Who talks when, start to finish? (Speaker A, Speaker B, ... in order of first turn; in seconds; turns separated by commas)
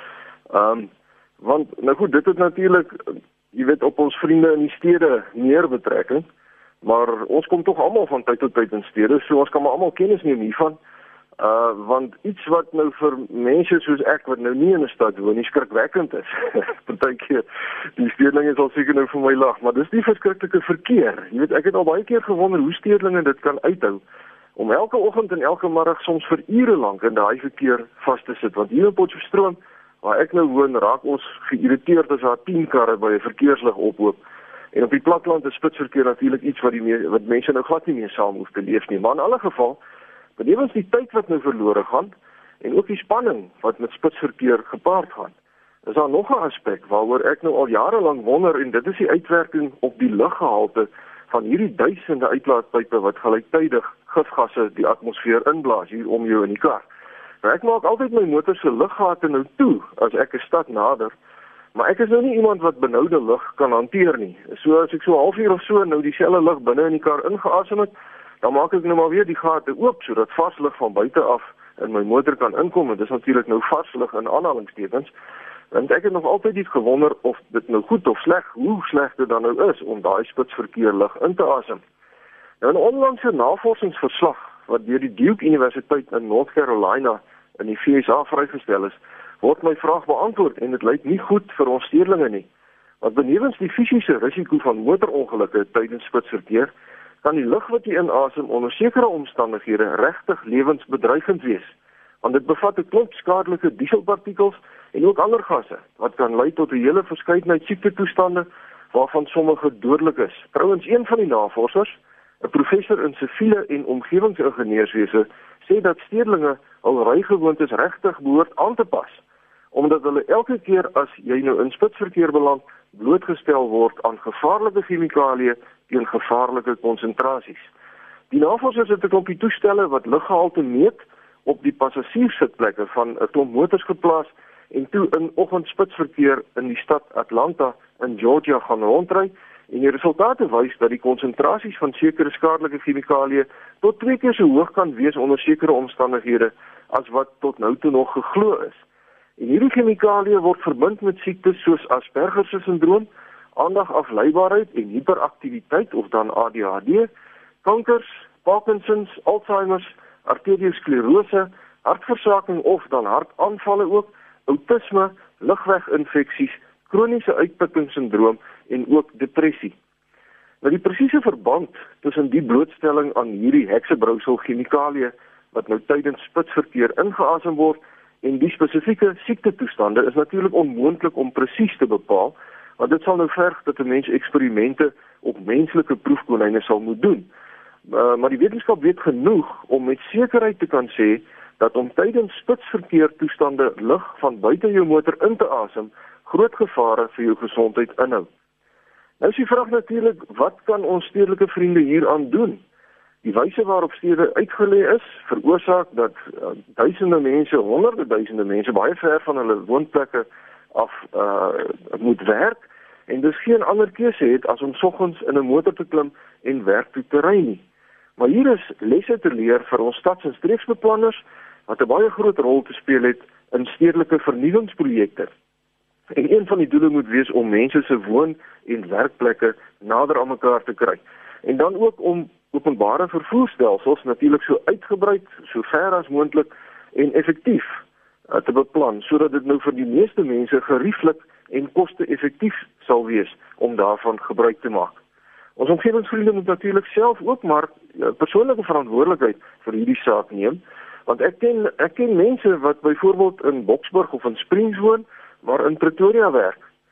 Speaker A: 0.5-0.9, Speaker A: 1.4-6.2, Speaker A: 6.8-10.8, Speaker A: 11.4-17.4, Speaker A: 18.0-24.0, Speaker A: 24.6-34.2, Speaker A: 34.7-39.8, Speaker A: 40.4-42.1, Speaker A: 42.6-45.3, Speaker A: 45.9-56.8, Speaker A: 57.4-61.1, Speaker A: 61.7-67.9, Speaker A: 68.4-75.1, Speaker A: 75.7-81.8, Speaker A: 82.6-92.5, Speaker A: 93.0-96.7, Speaker A: 97.2-119.2, Speaker A: 119.7-127.7, Speaker A: 128.3-148.8, Speaker A: 149.4-157.1, Speaker A: 157.6-169.8, Speaker A: 170.6-187.3, Speaker A: 187.9-198.3, Speaker A: 199.2-202.6, Speaker A: 203.2-217.6, Speaker A: 218.2-225.3, Speaker A: 226.1-245.0, Speaker A: 245.6-256.6